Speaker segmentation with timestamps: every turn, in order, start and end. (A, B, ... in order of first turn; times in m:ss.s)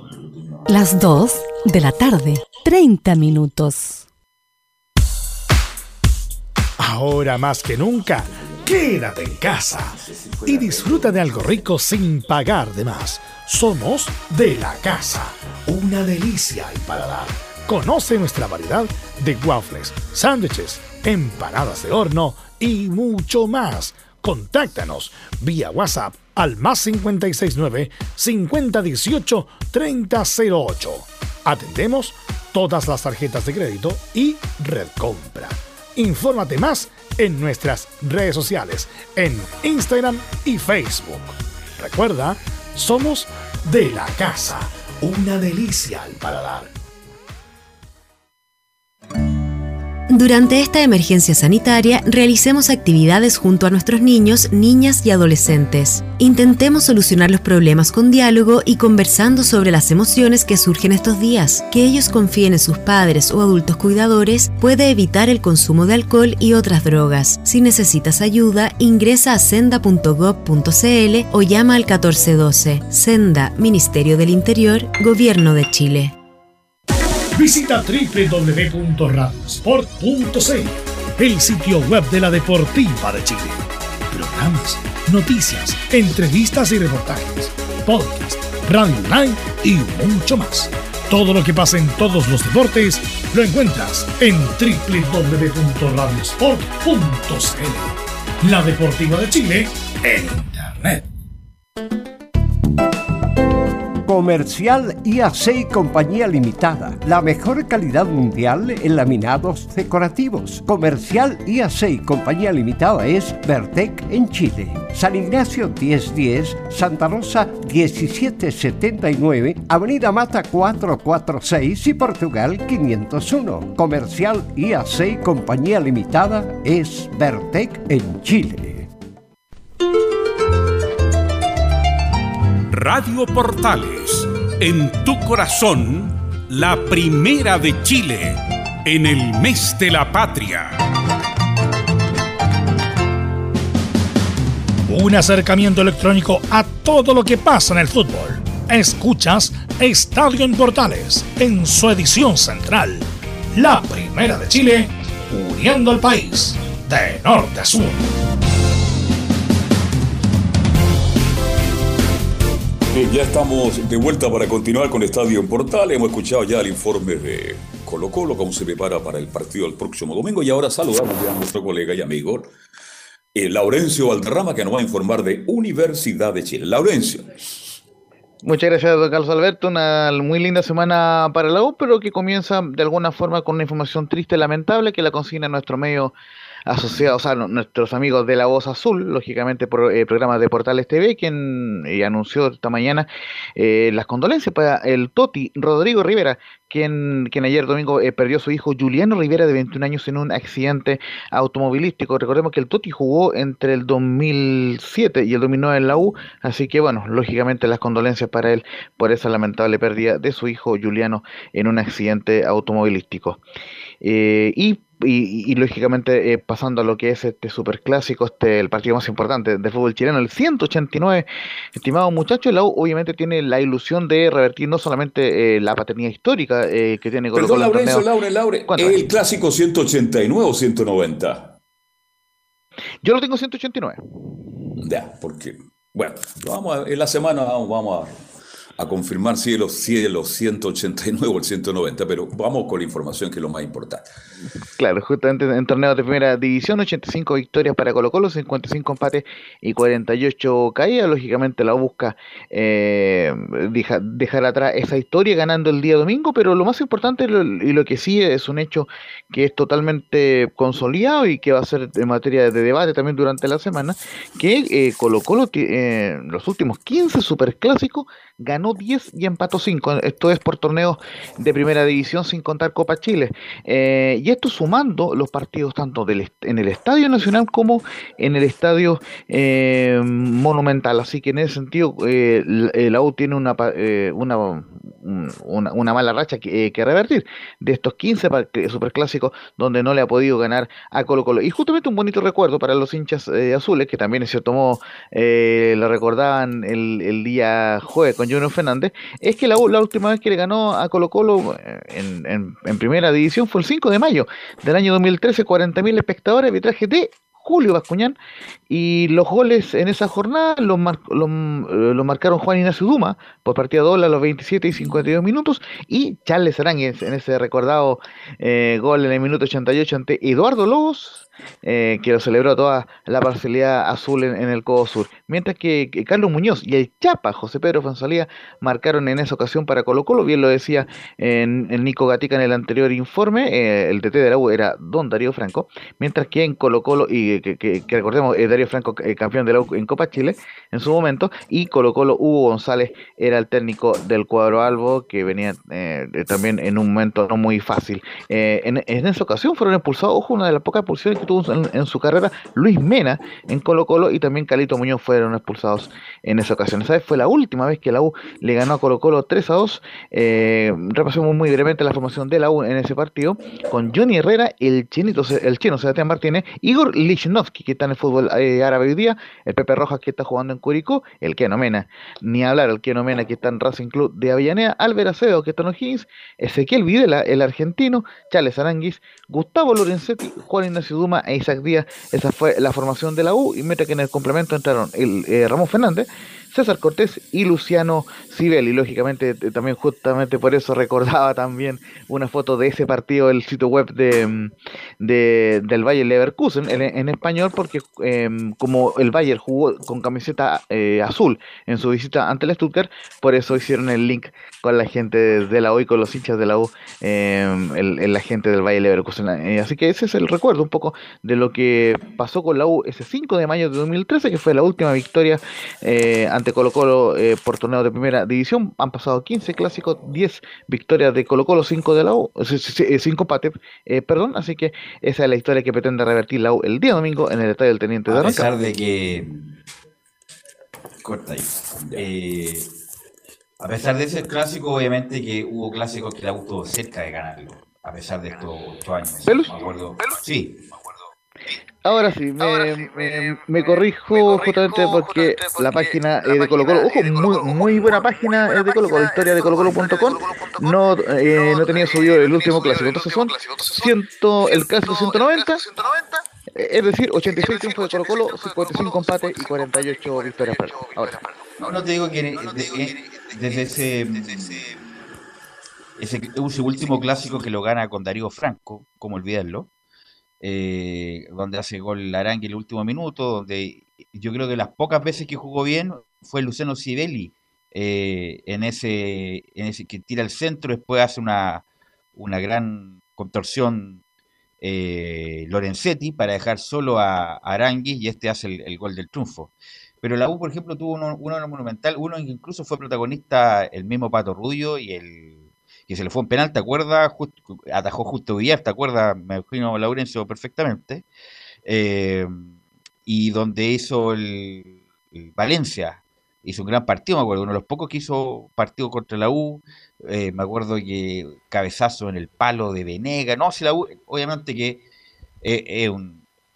0:00.7-0:04.0 A
0:06.8-0:46.7 B
0:09.6-0:11.5 C
0:50.1-1:16.1 D
1:17.4-1:23.6 B
1:24.1-1:41.0 B
1:44.1-2:08.9 E
2:12.7-2:20.8 F
2:24.9-2:38.1 B
2:42.9-2:52.5 G
2:53.4-2:57.3 G
2:58.4-3:06.1 H
3:06.7-3:33.4 H
3:34.0-3:48.1 H
3:47.3-3:51.6 G
3:48.7-3:49.1 H
3:53.0-3:54.0 H
3:54.8-3:58.2 G
3:58.8-4:04.1 G
4:04.8-5:08.2 H
5:08.7-7:08.5 H
7:08.1-7:09.5 C
7:11.0-7:12.7 C
7:11.8-7:12.1 G
7:13.6-7:20.6 C
7:21.8-7:35.8 H
7:36.5-7:41.2 H
7:41.6-7:44.6 C
7:46.0-7:49.7 C
7:50.4-8:01.6 C
8:02.2-8:04.0 C
8:04.6-8:21.0 C
8:21.6-8:22.5 C
8:23.1-8:34.8 C
8:35.4-8:36.2 C